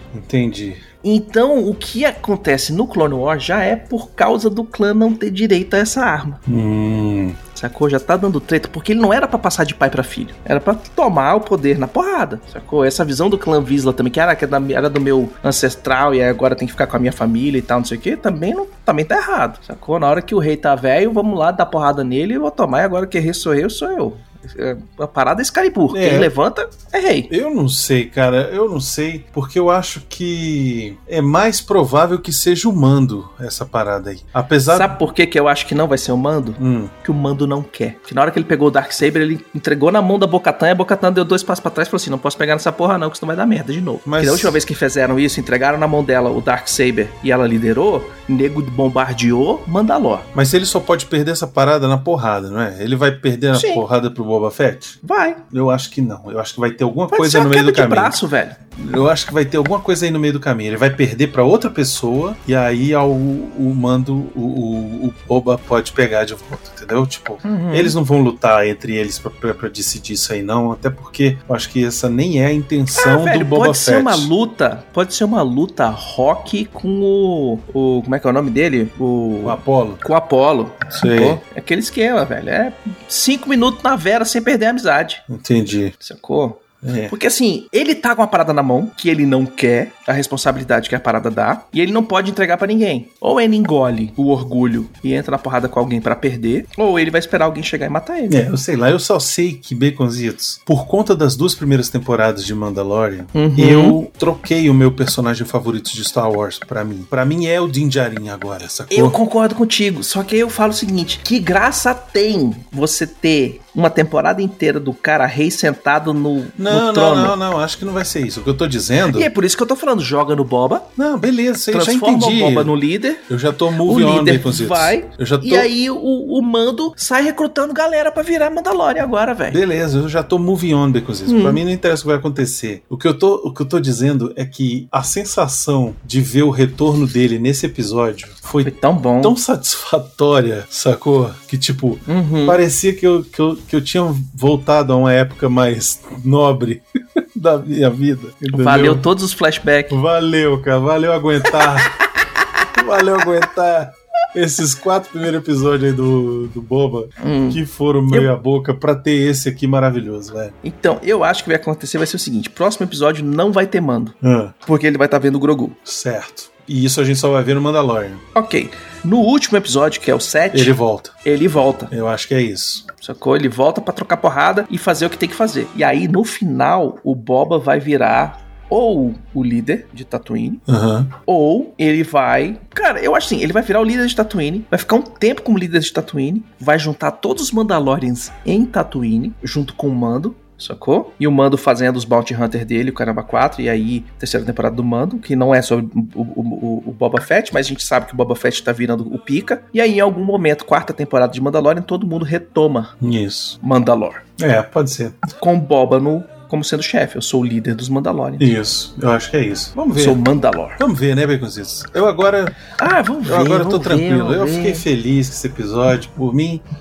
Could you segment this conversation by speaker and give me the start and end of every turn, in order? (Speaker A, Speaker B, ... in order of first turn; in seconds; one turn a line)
Speaker A: 0.1-0.8
Speaker B: 1.0-6.4
Speaker A: 6.5-7.4
Speaker B: 7.5-27.3
Speaker A: 25.9-26.3
Speaker A: 27.3-35.0
Speaker B: 34.7-50.3
Speaker A: 36.6-36.9
Speaker A: 44.1-44.6
Speaker A: 50.4-55.0
Speaker B: 53.5-53.9
Speaker B: 55.0-55.4
Speaker A: 55.5-58.2
Speaker B: 57.1-58.6
Speaker A: 58.8-74.3
Speaker B: 67.4-68.0
Speaker B: 73.0-85.2
Speaker A: 79.4-80.0
Speaker A: 80.9-81.4
Speaker A: 85.3-85.9
Speaker B: 86.0-98.4
Speaker A: 86.8-87.1
Speaker A: 98.3-109.2
Speaker B: 103.3-104.0
Speaker B: 108.9-117.4
Speaker A: 116.6-119.3
Speaker B: 119.1-120.9
Speaker A: 121.0-122.8
Speaker B: 121.7-123.3
Speaker A: 123.3-125.7
Speaker B: 123.8-129.6
Speaker A: 129.5-138.7
Speaker B: 131.3-131.6
Speaker B: 138.6-139.4
Speaker A: 139.2-146.8
Speaker B: 142.1-142.6
Speaker A: 147.3-149.0
Speaker B: 148.5-150.0
Speaker A: 149.9-151.9
Speaker B: 151.5-152.3
Speaker A: 152.7-160.5
Speaker B: 157.2-158.3
Speaker B: 160.6-165.8
Speaker A: 164.2-164.5
Speaker A: 165.9-168.2
Speaker B: 168.3-171.9
Speaker A: 170.5-171.2
Speaker A: 171.9-172.9
Speaker B: 173.0-180.6
Speaker A: 180.7-181.1
Speaker B: 181.2-202.9
Speaker A: 203.0-203.6
Speaker B: 203.6-204.2
Speaker A: 204.4-205.2
Speaker B: 205.4-208.5
Speaker A: 208.4-210.3
Speaker B: 209.9-210.8
Speaker A: 210.8-212.6
Speaker B: 212.8-214.8
Speaker A: 213.2-216.6